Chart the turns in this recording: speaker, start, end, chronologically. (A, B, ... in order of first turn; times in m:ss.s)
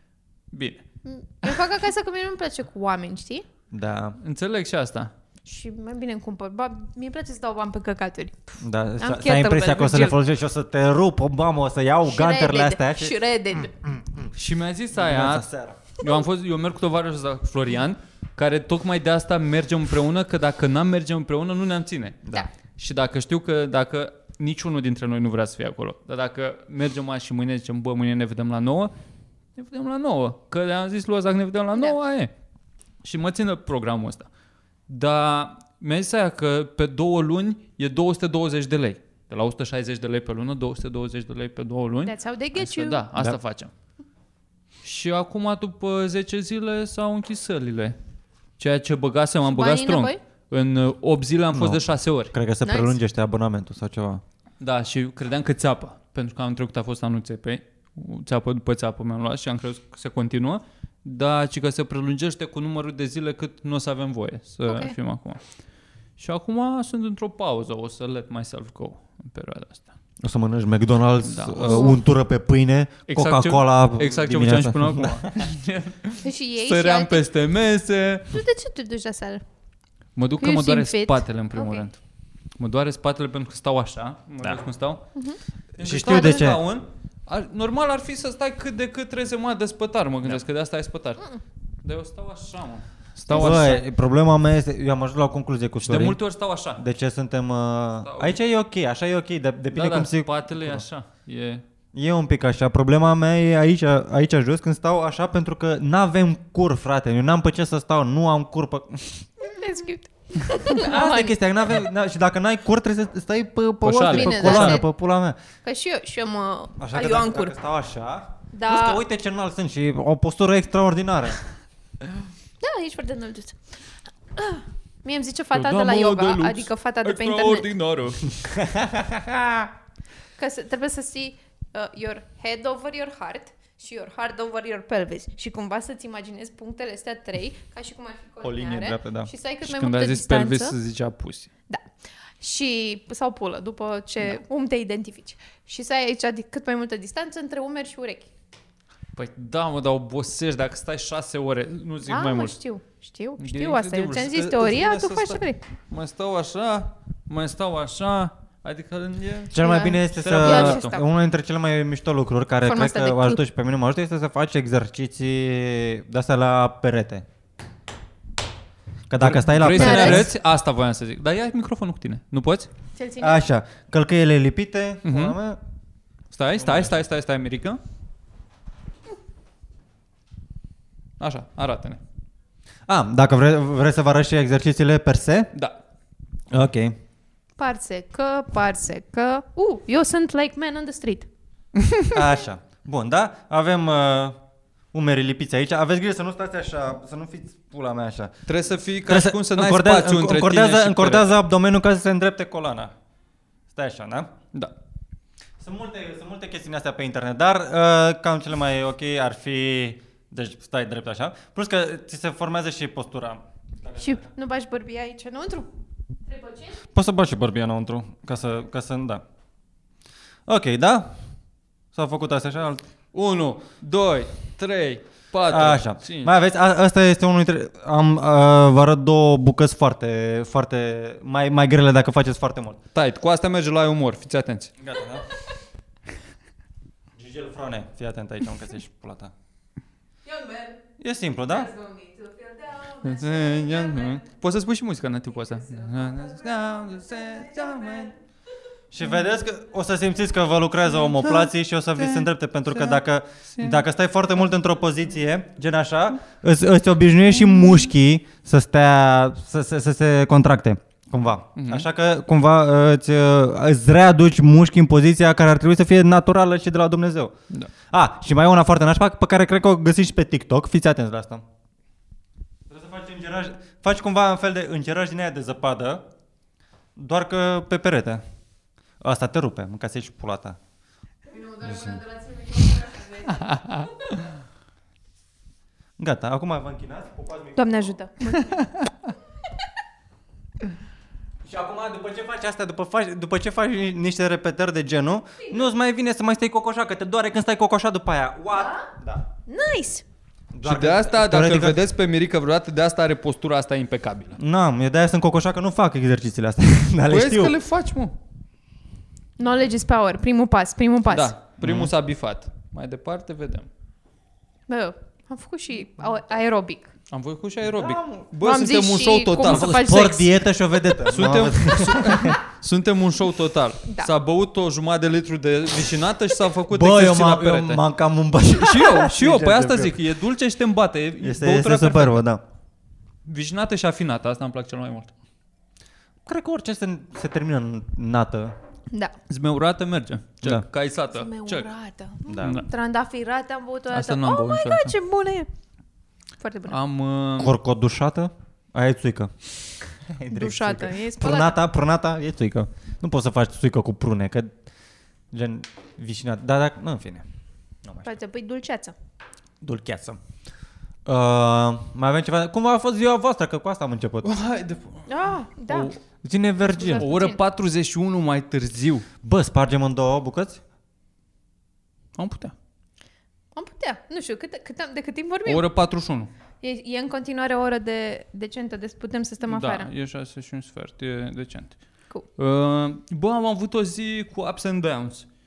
0:00.5-0:00.8 A
0:01.0-0:03.4 B
0:03.7-0:04.2 C
0:04.2-0:05.1 A
0:05.4-0:10.2 B
0:08.6-0:14.3 C
0:12.1-0:13.7 B
0:14.3-0:15.5 A
0:14.9-0:15.8 C
0:16.0-0:28.9 A
0:29.6-0:32.3 A
0:33.0-0:34.3 A
0:34.9-0:43.7 A
0:42.0-0:43.0 B
0:44.8-0:48.0 A
0:48.6-0:52.3 A
0:49.5-0:50.2 B
0:51.5-0:54.2 C
0:52.6-0:53.0 B
0:54.6-1:05.4 A
1:04.6-1:04.9 B
1:06.2-1:09.8 A
1:10.2-1:15.5 C
1:11.2-1:12.0 A
1:11.6-1:12.0 B
1:13.1-1:18.4 A
1:16.2-1:17.2 B
1:18.3-1:19.4 B
1:20.2-1:22.0 A
1:20.4-1:21.9 B
1:22.6-1:25.0 A
1:25.8-1:31.2 A
1:25.8-1:26.6 C
1:31.8-1:33.8 A
1:33.3-1:33.8 B
1:33.3-1:36.2 C
1:35.8-1:36.8 A
1:36.8-1:40.8 C
1:38.0-1:38.4 A
1:39.7-1:41.6 A
1:41.9-1:49.3 C
1:49.4-1:51.4 B
1:50.7-1:55.4 C
1:53.8-1:54.8 A
1:54.0-1:54.8 B
1:55.6-1:57.5 B
1:56.8-2:01.4 C
1:58.5-1:59.0 B
2:02.6-2:03.6 B
2:04.4-2:07.7 B
2:05.5-2:08.3 A
2:08.4-2:09.7 C
2:10.4-2:20.7 B
2:18.4-2:19.3 C
2:19.6-2:21.5 A
2:22.4-2:28.3 B
2:29.1-2:32.6 A
2:32.0-2:35.6 B
2:33.4-2:40.9 A
2:39.5-2:47.2 C
2:39.6-2:41.1 B
2:42.6-2:43.4 B
2:49.1-2:50.3 C
2:49.2-2:52.7 A
2:49.7-2:50.3 B
2:53.0-2:53.4 B
2:53.2-2:55.6 C
2:55.0-2:55.4 A
2:56.3-2:57.8 A
2:56.6-2:57.0 C
3:01.2-3:02.0 A
3:02.9-3:05.5 C
3:06.5-3:07.0 C
3:07.6-3:11.3 B
3:12.1-3:14.4 C
3:14.9-3:18.3 C
3:18.4-3:21.3 A
3:19.0-3:22.9 C
3:23.7-3:24.3 C
3:25.6-3:34.2 C
3:34.0-3:35.7 B
3:36.3-3:36.8 B
3:36.9-3:39.2 C
3:40.5-3:41.2 C
3:41.9-3:42.8 C
3:43.1-3:46.3 A
3:45.5-3:52.8 C
3:52.9-3:54.7 A
3:54.8-3:55.3 C
3:57.1-3:59.3 C
4:00.3-4:00.8 B
4:01.0-4:01.7 C
4:01.5-4:04.2 B
4:03.0-4:08.1 A
4:08.9-4:27.3 C
4:11.2-4:11.5 A
4:12.0-4:13.0 A
4:13.5-4:13.8 A
4:21.6-4:21.8 A
4:27.9-4:31.4 C
4:32.7-4:36.0 C
4:37.0-4:38.2 C
4:39.0-4:40.6 C
4:41.3-4:43.5 B
4:43.3-4:44.0 A
4:46.0-4:47.8 C
4:47.6-4:48.7 B
4:48.4-4:48.8 A
4:51.4-4:59.2 C
4:58.5-4:58.9 B
4:59.5-5:00.0 B
5:00.5-5:01.8 C
5:00.6-5:04.4 A
5:04.4-5:07.6 C
5:07.1-5:08.2 A
5:09.4-5:11.3 B
5:11.1-5:13.7 A
5:11.6-5:11.9 C
5:14.7-5:16.9 B
5:17.1-5:19.7 A
5:17.7-5:18.3 C
5:18.4-5:20.4 B
5:19.4-5:22.4 C
5:21.0-5:27.8 A
5:26.7-5:30.0 C
5:28.5-5:32.2 A
5:31.2-5:32.4 C
5:33.2-5:35.1 A
5:36.2-5:38.5 C
5:39.3-5:41.7 A
5:41.1-5:45.5 B
5:42.3-5:42.5 C
5:42.4-5:42.7 A
5:43.9-5:44.9 A
5:46.4-5:46.8 B
5:46.7-5:47.5 A
5:47.4-5:49.3 C
5:50.1-5:54.5 C
5:50.3-5:51.6 B
5:55.3-5:57.2 C
5:57.8-5:58.1 C
5:58.0-5:58.9 B
5:59.6-6:00.2 C
6:01.0-6:04.3 C
6:04.2-6:05.1 A
6:05.1-6:05.9 B
6:05.7-6:06.0 A
6:06.2-6:07.1 C
6:06.6-6:07.4 B
6:07.0-6:09.0 A
6:09.2-6:10.6 C
6:12.2-6:12.5 A
6:13.5-6:15.6 B
6:15.4-6:16.3 A
6:16.6-6:19.9 B
6:19.5-6:21.8 A
6:22.4-6:25.2 A